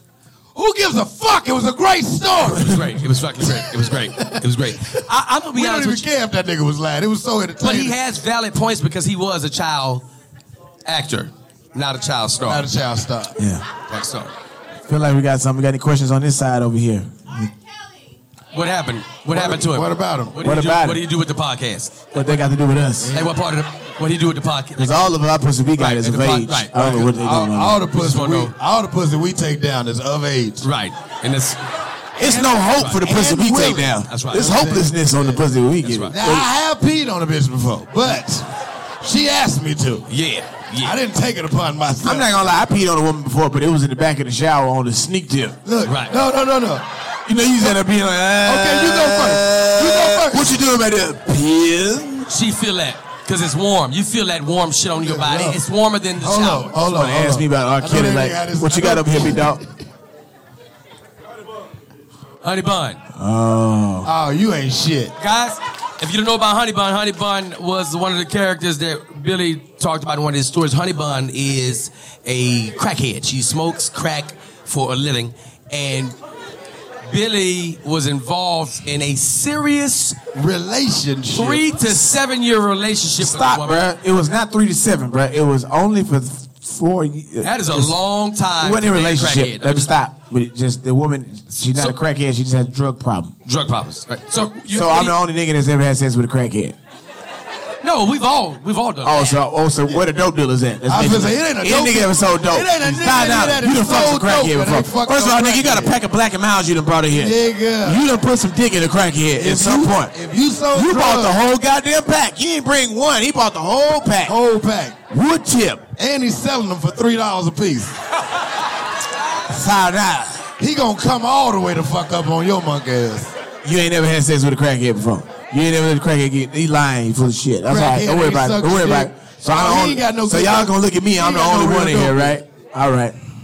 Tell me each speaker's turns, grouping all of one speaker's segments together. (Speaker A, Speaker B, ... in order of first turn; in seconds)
Speaker A: 0.6-5.0, 5.5-8.0, 12.4-13.4, 19.3-20.4, 23.0-23.3, 26.7-30.7, 32.2-35.4, 36.1-38.5, 39.0-40.1, 40.8-42.5, 45.6-46.9, 48.4-50.6, 55.0-55.6, 56.2-59.7, 64.0-65.2, 80.3-81.7, 100.9-106.0, 107.1-108.0, 109.4-111.4, 114.3-115.0, 116.0-118.0, 120.6-123.3, 127.7-132.4
Speaker B: 2.6-6.1, 7.6-10.1, 10.8-12.7, 13.9-14.3, 18.5-22.1, 23.1-24.9, 25.8-26.9, 27.9-28.5, 30.6-31.6, 32.2-33.2, 34.0-34.7, 35.8-36.2, 40.1-41.0, 45.8-46.2, 52.3-56.8, 62.4-63.0, 65.2-76.2, 77.1-80.2, 81.3-83.9, 87.4-89.9, 93.5-95.2, 97.8-99.4
Speaker C: 13.4-13.7, 14.9-17.5, 20.4-21.0, 22.1-23.1, 24.8-27.9, 32.2-36.5, 42.0-45.6, 47.3-52.3, 56.8-59.6, 63.1-64.1, 83.2-88.0, 88.6-93.4, 94.7-96.8, 99.0-110.1, 110.7-114.4, 115.1-115.9, 119.5-120.5, 123.6-133.2